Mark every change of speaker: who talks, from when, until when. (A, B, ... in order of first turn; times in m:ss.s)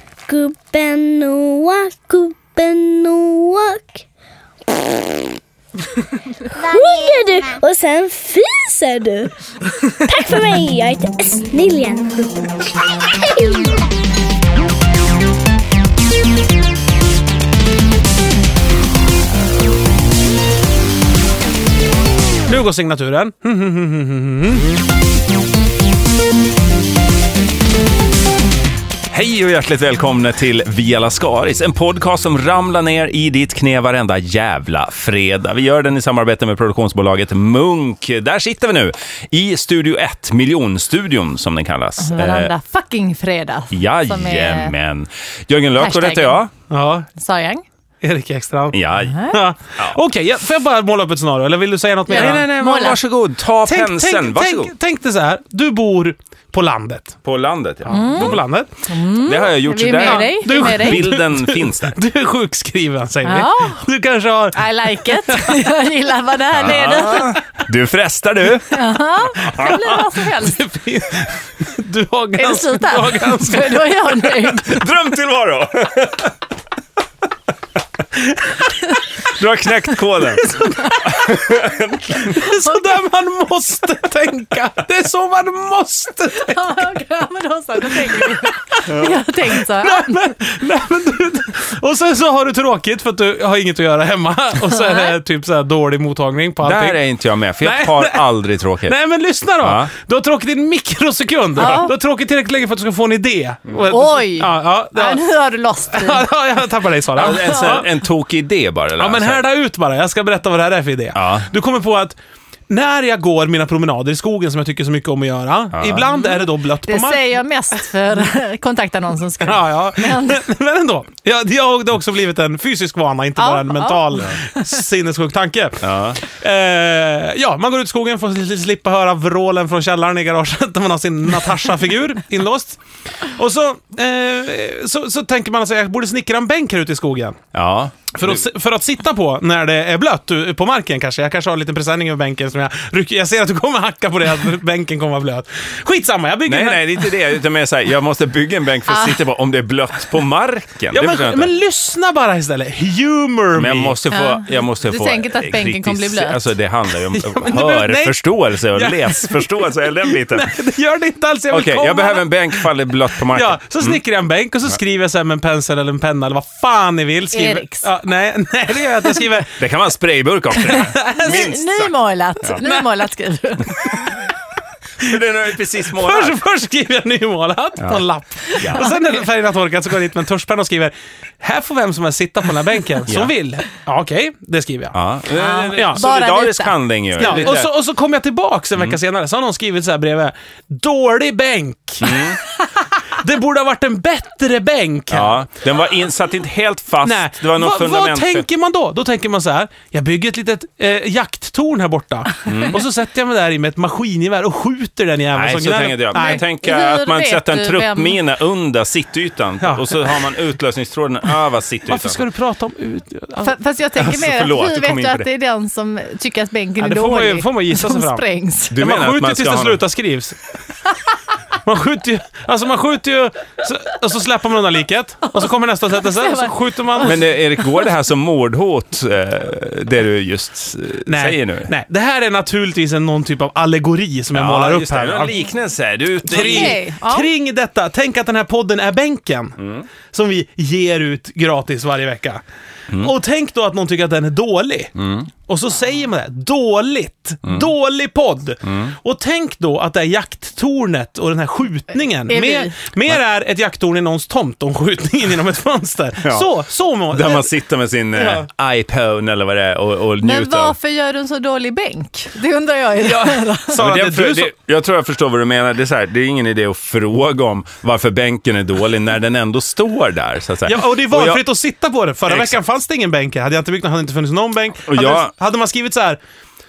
0:00.3-0:04.0 A
0:06.6-0:12.5 A
0:22.5-0:24.7 B
0:29.1-0:42.5 C
0:42.0-0:44.7 D
0:43.7-0:46.5 C
0:45.8-0:46.4 D
0:46.7-0:47.1 B
0:47.2-0:47.6 D
0:48.0-0:52.5 B
0:48.7-0:50.0 C
0:49.0-0:49.4 D
0:52.1-0:53.0 D
0:52.1-0:54.7 C
0:53.6-0:57.2 B
0:57.2-0:58.4 C
0:57.8-0:58.8 B
0:57.9-1:01.1 D
0:59.2-1:02.0 C
0:59.9-1:05.7 B
1:03.2-1:03.9 D
1:04.5-1:07.4 D
1:06.5-1:08.7 C
1:08.7-1:10.6 D
1:09.4-1:14.6 B
1:12.4-1:14.8 D
1:14.6-1:16.3 C
1:18.2-1:18.6 B
1:19.2-1:20.5 C
1:20.2-1:26.9 B
1:21.0-1:22.3 C
1:22.4-1:22.9 D
1:26.4-1:30.2 D
1:27.9-1:28.5 B
1:28.9-1:29.2 C
1:29.5-1:37.0 B
1:34.7-1:35.2 D
1:36.6-1:39.0 C
1:37.6-1:38.3 B
1:38.8-1:45.2 B
1:39.6-1:39.9 C
1:41.6-1:41.9 D
1:43.9-1:46.3 D
1:45.9-1:47.9 B
1:47.2-1:49.4 C
1:47.2-1:47.8 D
1:49.0-1:52.2 B
1:51.1-1:51.5 C
1:52.7-1:57.3 B
1:55.7-1:56.1 C
1:56.1-2:00.4 D
1:59.4-2:17.4 B
2:03.4-2:04.6 D
2:05.8-2:06.2 C
2:17.5-2:18.4 C
2:18.1-2:27.1 B
2:26.5-2:31.5 C
2:30.9-2:34.0 B
2:33.5-2:40.6 C
2:34.1-2:36.5 D
2:37.1-2:42.7 B
2:41.5-2:44.0 C
2:43.3-2:49.6 B
2:47.3-2:47.9 D
2:49.6-2:52.6 C
2:50.6-2:54.2 D
2:51.0-2:51.4 B
2:55.0-2:56.4 C
2:55.9-3:05.0 B
2:57.8-2:58.0 C
2:58.6-2:58.9 C
3:03.1-3:03.3 C
3:04.9-3:07.7 C
3:05.3-3:07.6 D
3:05.7-3:06.0 B
3:07.2-3:12.3 B
3:12.0-3:12.4 C
3:12.9-3:15.4 B
3:15.1-3:18.5 C
3:17.0-3:26.4 B
3:22.5-3:22.8 C
3:25.3-3:32.2 C
3:26.1-3:28.2 D
3:29.6-3:30.1 B
3:31.9-3:33.5 B
3:33.4-3:38.8 D
3:34.0-3:35.3 C
3:36.8-3:40.5 B
3:38.7-3:39.8 C
3:41.6-3:47.2 B
3:45.4-3:47.1 D
3:47.0-3:51.7 C
3:51.1-3:55.4 B
3:54.3-3:56.8 C
3:56.3-4:04.9 B
3:56.3-3:57.3 D
4:05.0-4:05.3 C
4:05.5-4:17.5 B
4:08.6-4:09.0 C
4:12.3-4:12.8 D
4:16.2-4:16.5 C
4:17.1-4:20.8 C
4:18.2-4:18.5 B
4:20.2-4:23.8 D
4:23.1-4:24.5 B
4:23.7-4:31.4 C
4:30.7-4:36.2 B
4:32.3-4:32.6 C
4:34.9-4:35.3 C